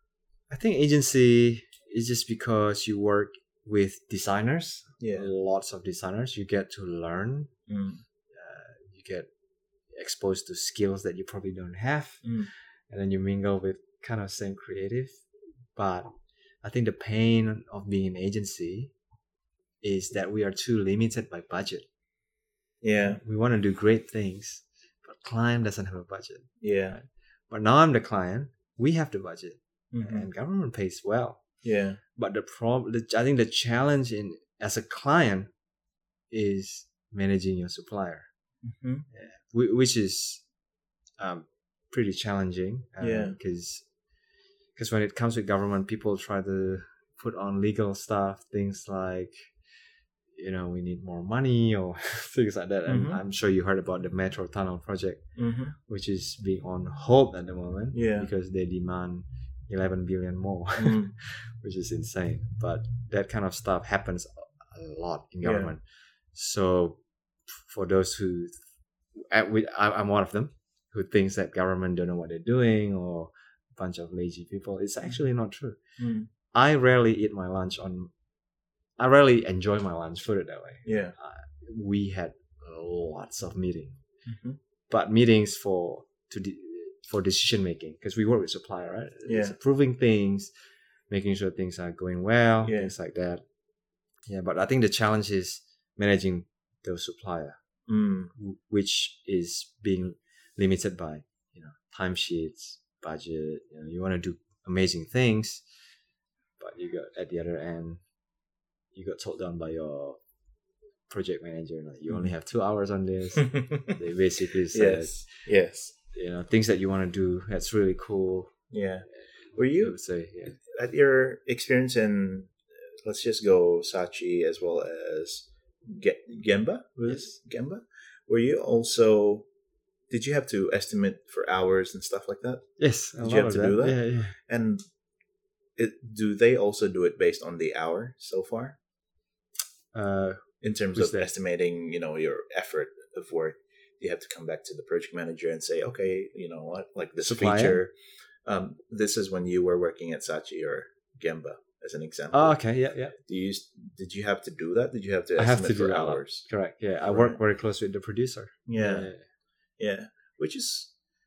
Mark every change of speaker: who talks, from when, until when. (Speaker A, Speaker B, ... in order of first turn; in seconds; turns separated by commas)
Speaker A: 0.5-7.5, Speaker B: 5.0-5.3, Speaker B: 7.7-8.0, Speaker A: 8.3-9.3, Speaker A: 9.9-12.3, Speaker B: 12.2-12.5, Speaker A: 12.9-15.2, Speaker A: 15.8-16.1, Speaker A: 16.6-18.9, Speaker A: 19.8-21.9, Speaker B: 22.8-23.2, Speaker A: 23.0-31.4, Speaker B: 26.6-27.0, Speaker B: 29.9-30.3, Speaker B: 31.6-32.0, Speaker A: 32.2-35.5, Speaker A: 36.3-38.3, Speaker B: 38.6-39.0, Speaker A: 39.1-40.4, Speaker A: 41.2-43.9, Speaker B: 43.0-43.4, Speaker A: 44.8-49.5, Speaker A: 50.4-55.2, Speaker B: 52.9-53.2, Speaker B: 55.4-55.8, Speaker A: 55.8-65.8, Speaker B: 57.9-58.3, Speaker B: 60.8-61.1, Speaker B: 65.4-65.8, Speaker A: 66.3-67.0, Speaker A: 67.5-68.5, Speaker A: 69.2-75.8, Speaker B: 76.0-76.3, Speaker A: 76.5-78.1, Speaker A: 79.0-84.0, Speaker B: 80.8-81.2, Speaker B: 84.3-84.6, Speaker A: 84.9-90.5, Speaker B: 89.2-89.5, Speaker A: 91.1-93.4, Speaker B: 92.6-92.9, Speaker A: 94.3-97.6, Speaker B: 97.9-98.3, Speaker A: 98.4-105.6, Speaker A: 106.6-108.0, Speaker A: 108.9-110.2, Speaker A: 111.1-115.2, Speaker B: 113.3-114.0, Speaker B: 114.7-115.9, Speaker A: 116.0-118.5, Speaker B: 118.7-120.0, Speaker A: 119.5-120.6, Speaker B: 120.6-122.5, Speaker B: 123.0-129.5, Speaker A: 127.1-127.3, Speaker B: 130.1-132.6, Speaker A: 132.8-134.4, Speaker B: 133.2-134.8, Speaker B: 135.8-138.8, Speaker A: 139.9-141.3, Speaker B: 140.6-147.9, Speaker A: 147.2-147.8, Speaker B: 148.5-152.6, Speaker A: 152.3-153.2, Speaker B: 153.2-156.5, Speaker A: 155.4-159.2, Speaker B: 157.1-157.4, Speaker B: 158.7-159.1, Speaker B: 159.8-160.9